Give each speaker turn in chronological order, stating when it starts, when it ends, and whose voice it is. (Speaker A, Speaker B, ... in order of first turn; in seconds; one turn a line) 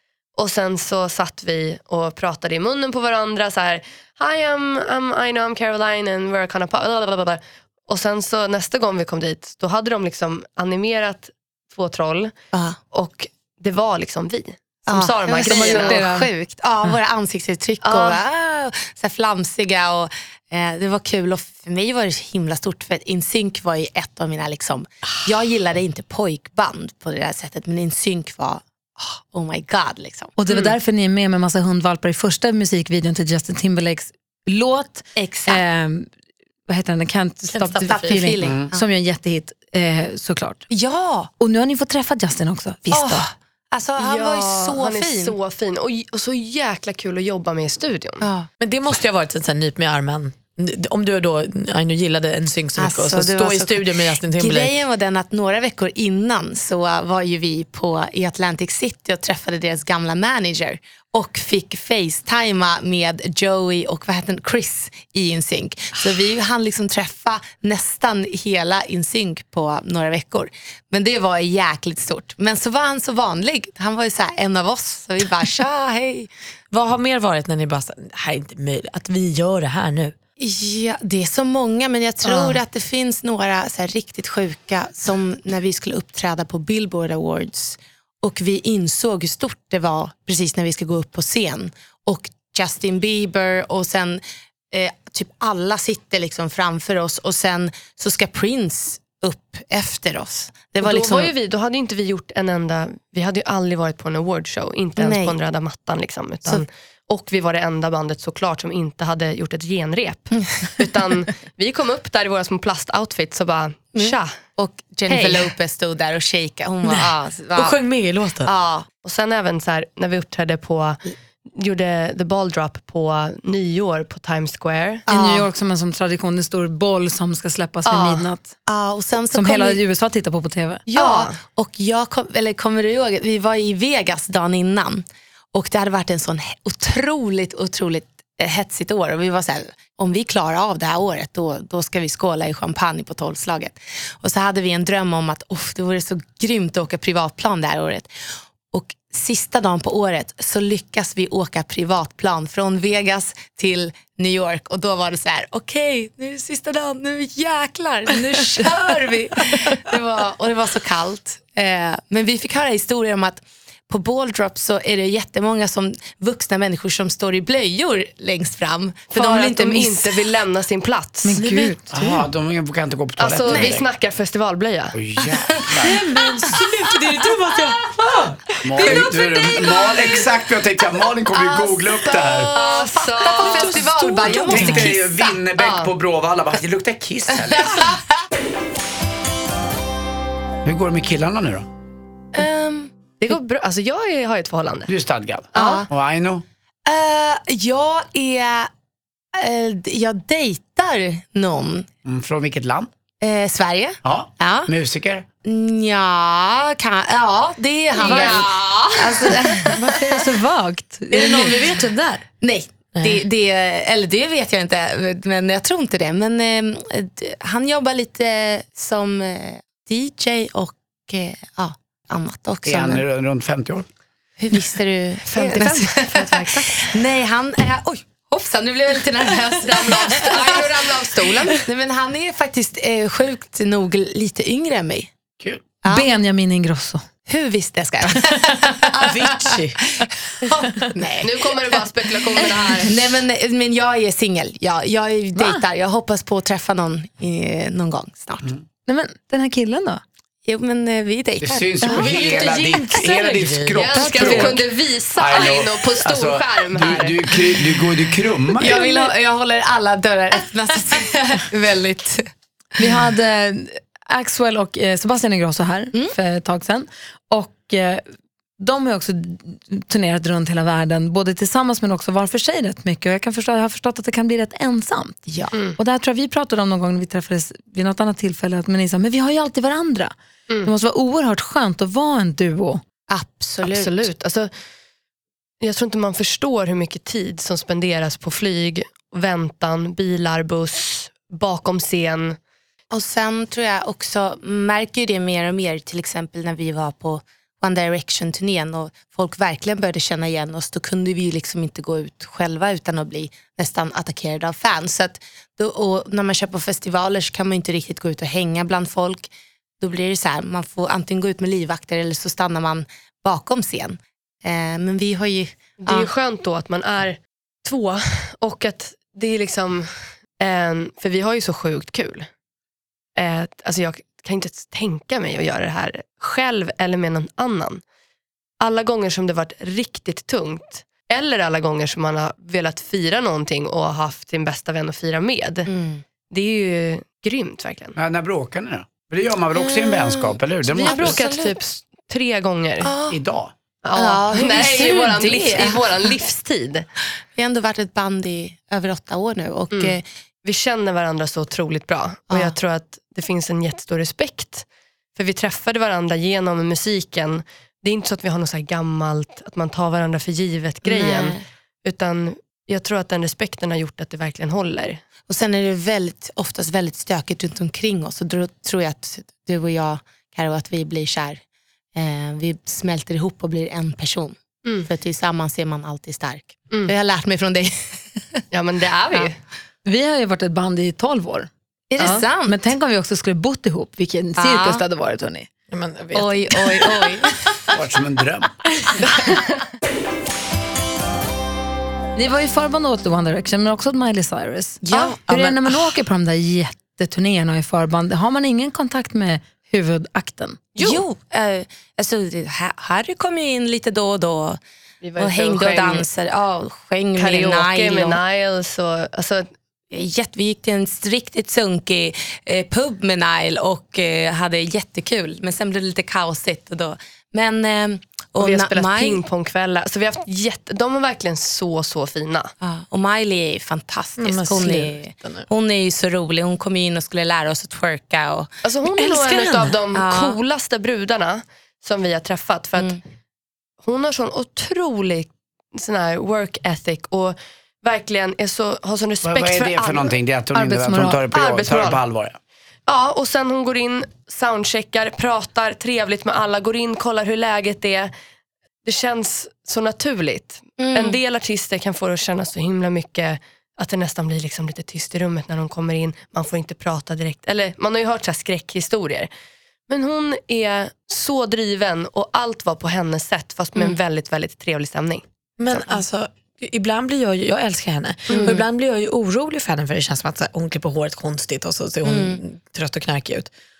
Speaker A: 0.3-12.3
Speaker B: 12.5-12.8
Speaker A: 12.9-16.0
Speaker B: 14.9-30.3
Speaker C: 15.4-16.3
Speaker A: 17.8-18.2
Speaker C: 30.4-36.1
Speaker B: 35.1-35.6
Speaker C: 36.7-40.6
Speaker D: 37.5-38.2
Speaker B: 37.8-38.8
Speaker E: 38.4-38.7
Speaker B: 40.7-41.3
Speaker C: 41.4-43.3
Speaker B: 42.9-45.4
Speaker A: 44.0-48.3
Speaker B: 48.2-48.5
Speaker D: 48.6-54.8
Speaker B: 52.8-76.3
Speaker D: 76.7-80.2
Speaker B: 80.4-94.2
Speaker A: 82.2-82.5
Speaker B: 94.7-101.3
Speaker A: 100.8-114.3
Speaker B: 105.0-105.3
Speaker B: 114.0-117.8
Speaker A: 115.1-115.5
Speaker D: 116.9-118.5
Speaker B: 118.4-118.9
Speaker A: 119.0-121.0
Speaker A: 121.5-125.0
Speaker B: 125.1-125.5
Speaker C: 125.1-128.5
Speaker A: 127.8-128.3
Speaker B: 128.7-129.8
Speaker C: 129.3-130.8
Speaker B: 130.9-148.1
Speaker A: 130.9-131.4
Speaker B: 148.7-170.3
Speaker A: 169.1-171.4
Speaker C: 171.2-172.2
Speaker D: 171.4-171.7
Speaker E: 171.9-173.8
Speaker A: 173.2-174.9
Speaker B: 173.4-173.8
Speaker E: 174.9-176.0
Speaker B: 175.4-176.7
Speaker D: 175.8-179.2
Speaker E: 178.6-182.5
Speaker B: 181.3-185.4
Speaker A: 182.2-184.0
Speaker D: 183.4-184.9
Speaker E: 184.3-187.9
Speaker A: 185.6-185.9
Speaker B: 187.6-188.0
Speaker E: 190.6-191.7
Speaker B: 192.3-192.9
Speaker A: 193.2-194.9
Speaker E: 194.9-196.4
Speaker A: 195.5-195.8
Speaker B: 195.5-195.9
Speaker B: 196.8-198.7
Speaker B: 199.3-201.9
Speaker E: 202.0-202.9
Speaker B: 203.2-204.7
Speaker E: 204.0-205.3
Speaker B: 205.4-209.8
Speaker A: 208.0-209.4
Speaker C: 208.0-208.4
Speaker C: 209.6-211.7
Speaker D: 211.1-212.2
Speaker B: 212.4-223.0
Speaker E: 222.7-223.8
Speaker B: 224.4-235.1
Speaker A: 225.3-226.9
Speaker A: 229.6-231.6
Speaker E: 235.4-235.7
Speaker B: 235.8-236.1
Speaker C: 235.9-237.0
Speaker B: 237.3-241.8
Speaker D: 239.0-239.8
Speaker A: 241.2-243.0
Speaker B: 242.3-248.5
Speaker C: 245.3-245.6
Speaker C: 248.9-250.0
Speaker B: 250.4-252.2
Speaker E: 251.4-258.8
Speaker D: 251.8-254.6
Speaker A: 253.7-257.2
Speaker B: 258.6-262.3
Speaker C: 262.8-268.0
Speaker C: 268.6-275.2
Speaker B: 275.3-275.5
Speaker C: 275.8-280.1
Speaker C: 280.6-282.8
Speaker B: 283.1-284.1
Speaker A: 283.6-284.5
Speaker A: 285.6-292.4
Speaker B: 292.9-316.1
Speaker A: 315.8-322.3
Speaker A: 323.1-327.8
Speaker A: 328.6-335.7
Speaker B: 335.6-336.0
Speaker A: 336.3-337.9
Speaker E: 337.9-341.3
Speaker B: 339.6-341.5
Speaker A: 340.7-342.9
Speaker B: 342.8-343.2
Speaker E: 343.1-343.5
Speaker A: 343.8-346.9
Speaker B: 343.9-346.2
Speaker B: 347.3-350.0
Speaker A: 349.7-365.0
Speaker B: 352.3-352.6
Speaker B: 360.8-361.4
Speaker B: 365.3-371.4
Speaker B: 371.9-377.7
Speaker A: 378.5-379.4
Speaker C: 379.8-385.5
Speaker B: 381.9-382.6
Speaker B: 384.4-384.8
Speaker D: 385.7-387.2
Speaker B: 386.1-387.3
Speaker E: 387.7-388.5
Speaker C: 392.1-400.6
Speaker B: 394.8-395.7
Speaker A: 400.8-401.0
Speaker B: 400.8-404.6
Speaker A: 405.0-406.1
Speaker B: 405.2-408.2
Speaker A: 407.2-409.5
Speaker B: 409.9-419.2
Speaker A: 418.4-422.5
Speaker B: 422.6-428.5
Speaker D: 424.2-425.5
Speaker A: 428.6-433.0
Speaker D: 428.9-429.8
Speaker B: 429.9-430.4
Speaker A: 433.8-440.1
Speaker E: 439.2-442.4
Speaker C: 440.5-441.2
Speaker A: 441.3-442.0
Speaker A: 442.9-448.1
Speaker A: 448.8-459.3
Speaker B: 450.8-451.2
Speaker A: 459.9-465.2
Speaker D: 465.6-473.5
Speaker A: 468.3-468.6
Speaker B: 468.3-468.6
Speaker B: 472.0-472.4